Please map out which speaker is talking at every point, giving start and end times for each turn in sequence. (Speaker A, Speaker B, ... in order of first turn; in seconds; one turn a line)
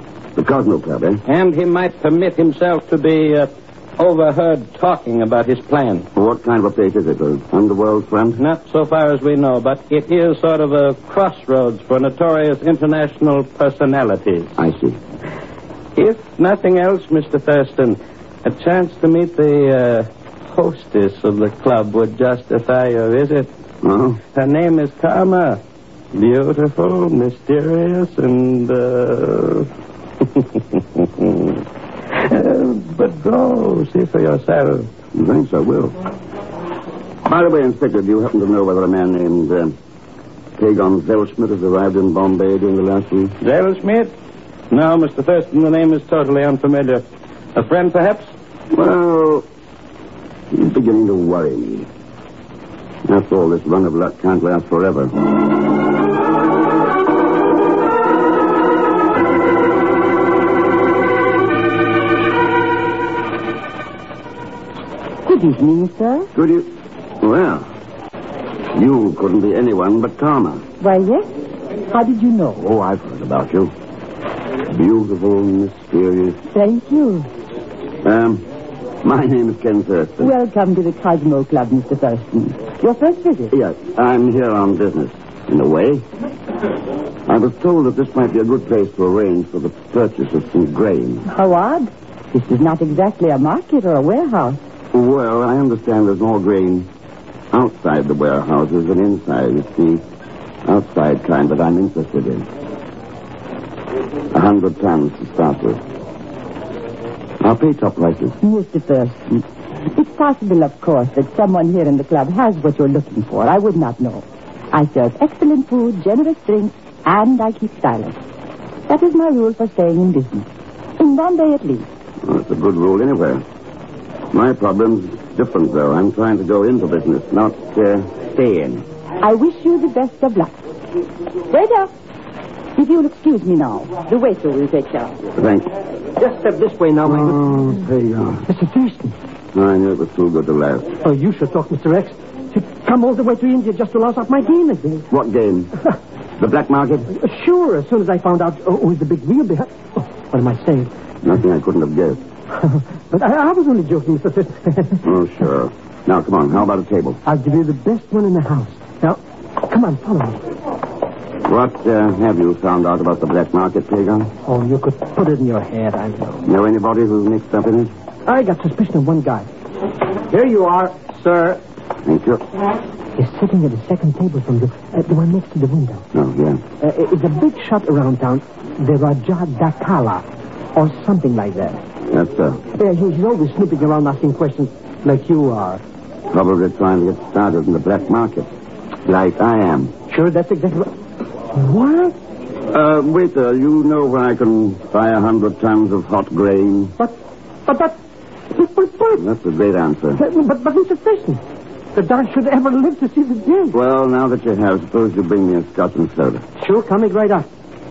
Speaker A: 0.3-1.2
Speaker B: 1.2-6.0
Speaker A: 6.1-8.4
Speaker B: 8.4-14.6
Speaker A: 14.6-15.0
Speaker B: 15.9-23.5
Speaker A: 23.8-24.2
Speaker B: 24.3-25.6
Speaker B: 26.1-29.7
Speaker B: 31.0-31.4
Speaker B: 32.1-34.9
Speaker A: 35.1-36.0
Speaker A: 37.2-39.7
Speaker A: 40.6-43.3
Speaker B: 43.4-44.1
Speaker B: 44.7-47.0
Speaker B: 47.5-48.3
Speaker A: 48.7-49.5
Speaker A: 50.5-51.9
Speaker A: 53.0-55.1
Speaker C: 65.2-66.3
Speaker A: 66.3-67.7
Speaker A: 68.7-70.6
Speaker C: 70.8-71.3
Speaker C: 71.9-72.6
Speaker A: 72.5-73.7
Speaker A: 74.7-76.4
Speaker C: 76.5-77.3
Speaker A: 78.0-78.4
Speaker A: 79.0-80.3
Speaker C: 80.2-83.5
Speaker A: 83.5-86.0
Speaker A: 87.3-91.2
Speaker C: 91.3-94.6
Speaker A: 94.9-96.9
Speaker A: 97.5-100.0
Speaker A: 100.6-102.5
Speaker A: 104.3-105.8
Speaker A: 107.4-108.4
Speaker C: 108.4-118.2
Speaker C: 118.9-120.5
Speaker C: 121.0-121.9
Speaker A: 122.2-123.4
Speaker A: 124.3-128.8
Speaker C: 129.2-130.6
Speaker C: 131.5-131.9
Speaker C: 132.8-135.1
Speaker A: 135.4-135.7
Speaker D: 136.2-137.7
Speaker A: 137.1-138.4
Speaker D: 138.5-139.2
Speaker A: 139.5-140.9
Speaker D: 141.0-145.1
Speaker A: 145.1-145.7
Speaker A: 146.4-147.1
Speaker D: 147.1-150.9
Speaker A: 151.2-152.2
Speaker D: 152.5-155.0
Speaker A: 155.0-157.2
Speaker D: 157.2-160.4
Speaker A: 161.4-164.3
Speaker D: 164.4-166.4
Speaker A: 166.4-167.9
Speaker D: 168.2-169.5
Speaker D: 170.3-171.6
Speaker A: 172.0-172.4
Speaker D: 173.2-176.0
Speaker A: 176.1-176.6
Speaker D: 176.8-181.8
Speaker A: 182.1-182.6
Speaker D: 182.8-185.8
Speaker A: 186.3-188.5
Speaker A: 189.1-189.9
Speaker D: 190.1-190.9
Speaker D: 191.5-192.2
Speaker A: 192.7-196.9
Speaker D: 197.0-198.0
Speaker D: 198.5-199.2
Speaker A: 199.2-200.2
Speaker D: 200.2-201.4
Speaker D: 201.9-203.8
Speaker A: 203.7-206.4
Speaker D: 206.6-207.5